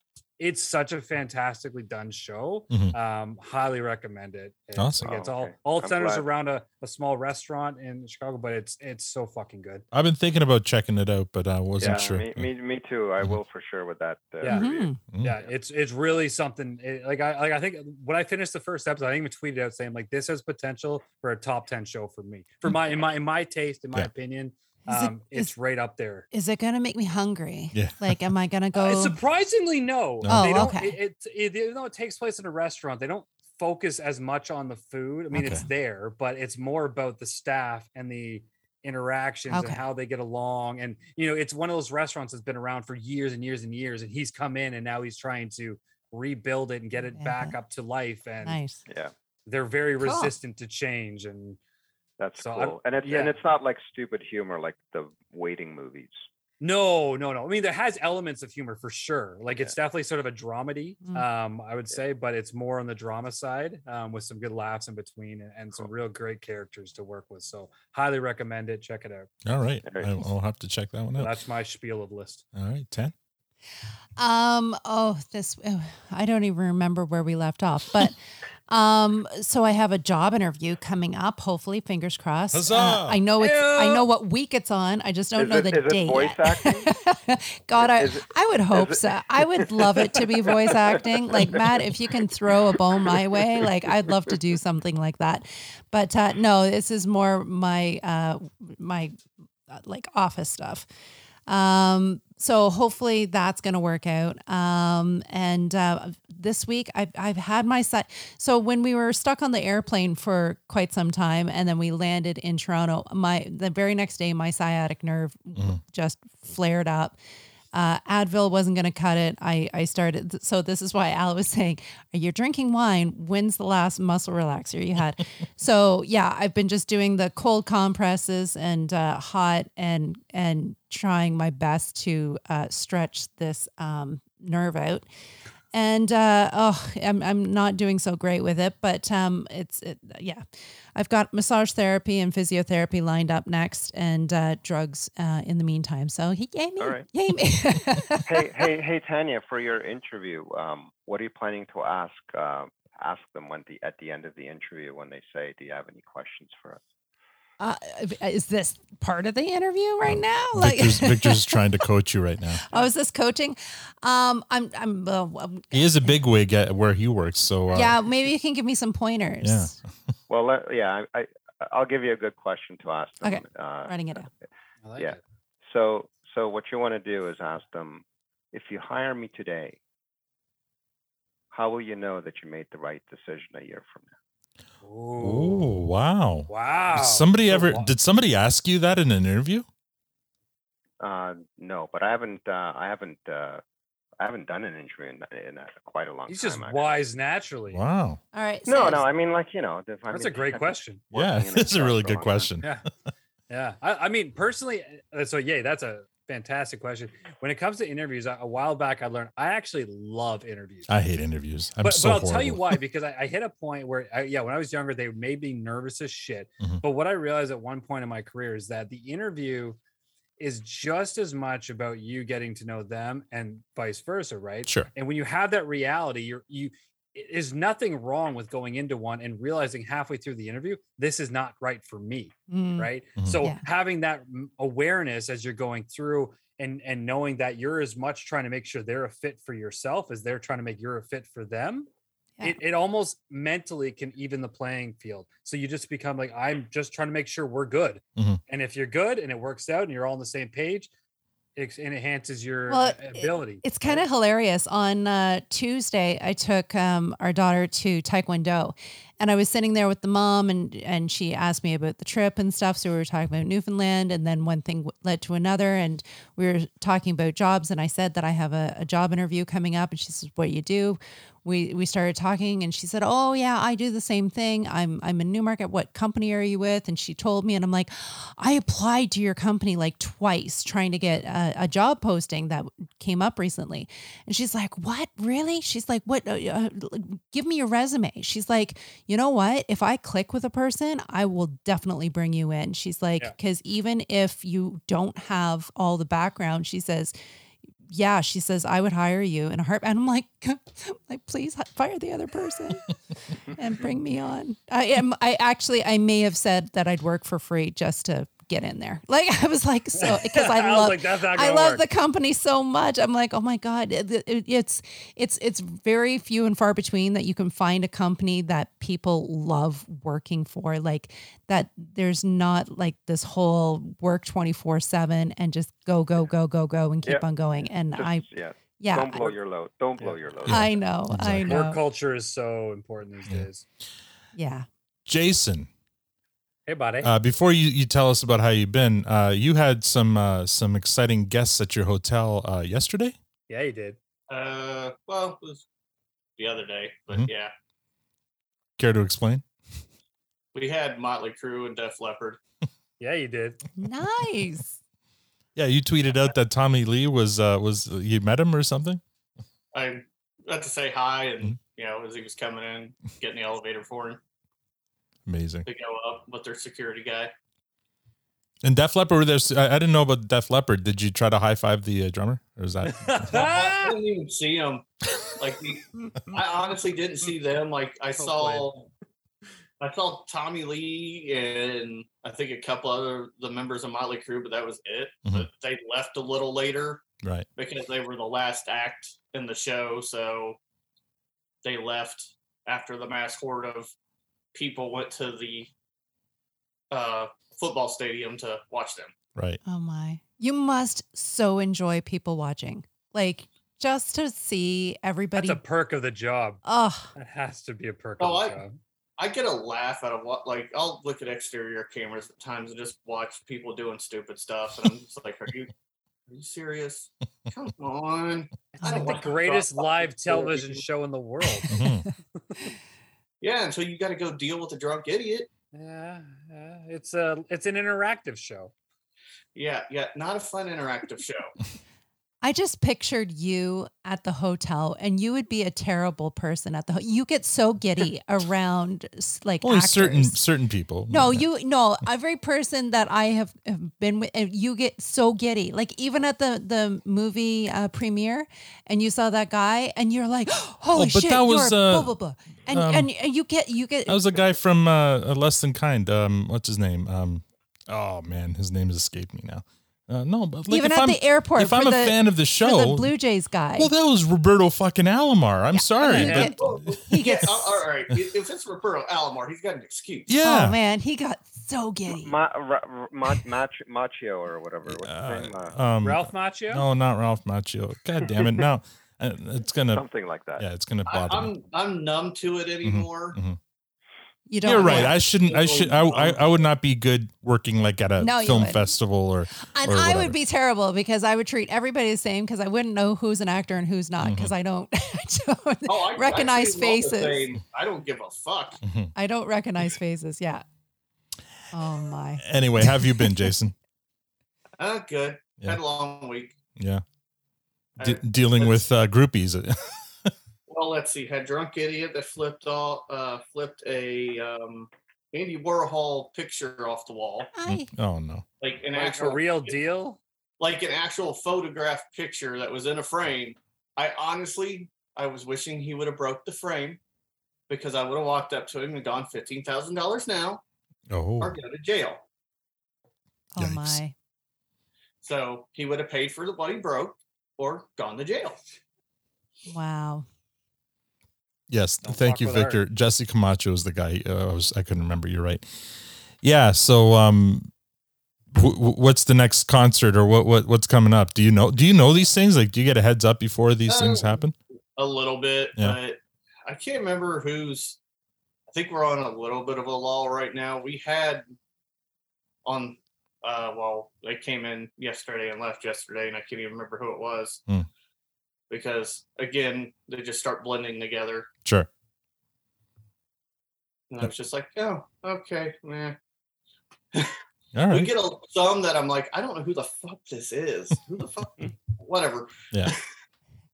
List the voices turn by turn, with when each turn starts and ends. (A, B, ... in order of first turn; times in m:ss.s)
0:00.4-0:09.8 A
0:04.8-0:05.0 B
0:05.0-0:06.2 C
0:09.9-0:12.5 B
0:11.8-0:15.5 C
0:14.4-0:14.7 A
0:14.4-0:15.0 D
0:15.2-0:26.2 A
0:24.9-0:25.5 D
0:26.3-0:29.2 D
0:27.7-0:28.2 B
0:28.8-0:48.6 A
0:30.2-0:30.5 B
0:30.3-0:31.0 D
0:35.4-0:35.6 B
0:39.5-0:39.8 D
0:47.1-0:47.5 D
0:48.4-0:48.8 D
0:48.9-0:49.1 C
0:49.5-0:51.6 A
0:50.0-0:50.3 D
0:52.2-0:56.3 C
0:52.4-0:53.3 A
0:56.6-1:09.3 A
1:09.4-1:11.3 B
1:09.8-1:10.2 C
1:11.2-1:12.4 A
1:12.5-1:13.1 B
1:14.2-1:18.2 D
1:18.7-1:39.1 D
1:22.5-1:23.2 B
1:23.4-1:24.0 A
1:25.4-1:26.9 C
1:27.8-1:31.8 C
1:39.7-1:40.8 D
1:41.5-1:57.2 D
1:57.7-2:15.1 D
2:15.7-2:20.4 D
2:21.0-2:28.3 D
2:26.8-2:27.0 C
2:28.2-2:36.8 C
2:37.6-2:41.6 D
2:40.0-2:42.6 B
2:42.7-2:46.1 D
2:45.7-2:47.9 B
2:47.7-2:49.7 D
2:49.4-2:49.8 B
2:50.3-2:54.2 C
2:53.2-2:54.3 D
2:54.8-2:55.2 A
2:55.0-2:59.8 C
3:01.5-3:04.1 C
3:04.8-3:05.8 A
3:05.2-3:09.6 B
3:06.5-3:07.9 A
3:11.0-3:13.6 C
3:14.2-3:17.0 C
3:16.3-3:17.8 A
3:17.7-3:18.2 B
3:18.3-3:19.0 D
3:18.6-3:22.5 C
3:20.1-3:21.0 A
3:21.1-3:22.7 B
3:23.5-3:30.9 A
3:30.9-3:32.6 B
3:31.8-3:39.8 A
3:40.4-4:01.9 A
3:52.5-3:52.9 D
4:02.4-4:10.9 A
4:11.6-4:14.0 A
4:12.7-4:57.1 D
4:57.9-5:02.9 D
5:03.6-5:28.2 D
5:10.0-5:11.8 A
5:27.9-5:30.8 C
5:28.8-5:29.3 D
5:30.4-5:31.5 B
5:30.5-5:31.8 D
5:31.5-5:33.6 A
5:34.3-5:34.6 D
5:35.1-5:35.7 B
5:36.7-5:37.1 A
5:37.0-5:43.2 B
5:43.5-5:44.0 A
5:44.3-5:45.6 E
5:46.4-5:47.5 E
5:48.8-5:49.4 B
5:50.5-5:52.4 E
5:53.0-5:53.6 A
5:53.8-5:54.8 D
5:55.6-5:59.0 B
5:59.7-6:04.2 E
6:05.3-6:05.6 B
6:05.6-6:07.3 E
6:08.6-6:13.4 B
6:12.9-6:14.0 A
6:13.3-6:14.8 E
6:15.4-6:18.9 E
6:18.2-6:18.7 A
6:19.8-6:27.0 E
6:27.6-6:30.6 E
6:31.6-6:33.9 E
6:34.5-6:35.7 E
6:36.9-6:39.1 E
6:39.6-6:45.6 D
6:45.4-6:46.6 A
6:46.6-6:47.1 D
6:47.2-6:48.8 A
6:48.2-6:48.6 E
6:49.2-6:55.7 E
6:56.3-7:00.8 E
6:58.7-7:01.7 A
6:58.8-6:59.1 D
7:01.7-7:02.0 B
7:03.4-7:05.5 E
7:05.7-7:08.7 A
7:09.5-7:11.5 E
7:12.4-7:20.4 D
7:19.6-7:21.4 B
7:21.1-7:34.2 D
7:30.9-7:32.1 B
7:32.7-7:33.1 B
7:34.1-7:43.1 B
7:40.7-7:43.9 D
7:43.8-7:47.0 B
7:45.7-7:47.8 D
7:46.0-7:46.5 A
7:46.2-7:50.3 E
7:50.3-7:50.8 B
7:50.4-7:52.4 D
7:52.1-7:55.7 C
7:54.8-8:00.0 B
7:56.0-7:56.8 A
7:59.9-8:00.6 C
8:00.6-8:01.5 B
8:01.1-8:03.4 E
8:02.8-8:03.6 B
8:04.5-8:05.2 D
8:04.6-8:10.3 B
8:04.8-8:06.4 E
8:08.2-8:08.9 D
8:09.7-8:17.5 D
8:14.2-8:14.5 B
8:15.9-8:18.8 E
8:18.8-8:19.1 B
8:19.1-8:20.6 D
8:21.7-8:23.3 D
8:22.4-8:23.7 B
8:24.8-8:26.5 E
8:26.8-8:27.0 B
8:28.0-8:28.8 E
8:28.0-8:30.3 B
8:30.7-8:37.5 E
8:37.5-8:37.9 D
8:37.6-8:38.4 B
8:38.6-8:39.8 E
8:38.9-8:40.2 A
8:40.6-8:47.0 E
8:47.7-8:50.6 E
8:51.1-8:51.6 B
8:51.4-8:52.2 E
8:53.5-8:54.1 D
8:53.6-8:54.0 B
8:55.2-8:58.6 E
8:59.7-9:00.2 D
9:01.7-9:05.6 B
9:02.0-9:02.8 A
9:06.4-9:07.7 B
9:08.5-9:14.5 B
9:13.9-9:14.4 E
9:15.0-9:18.0 E
9:18.7-9:21.4 E
9:22.6-9:27.6 E
9:28.7-9:31.5 E
9:34.1-9:36.2 E
9:37.7-9:38.1 B
9:37.9-9:43.0 E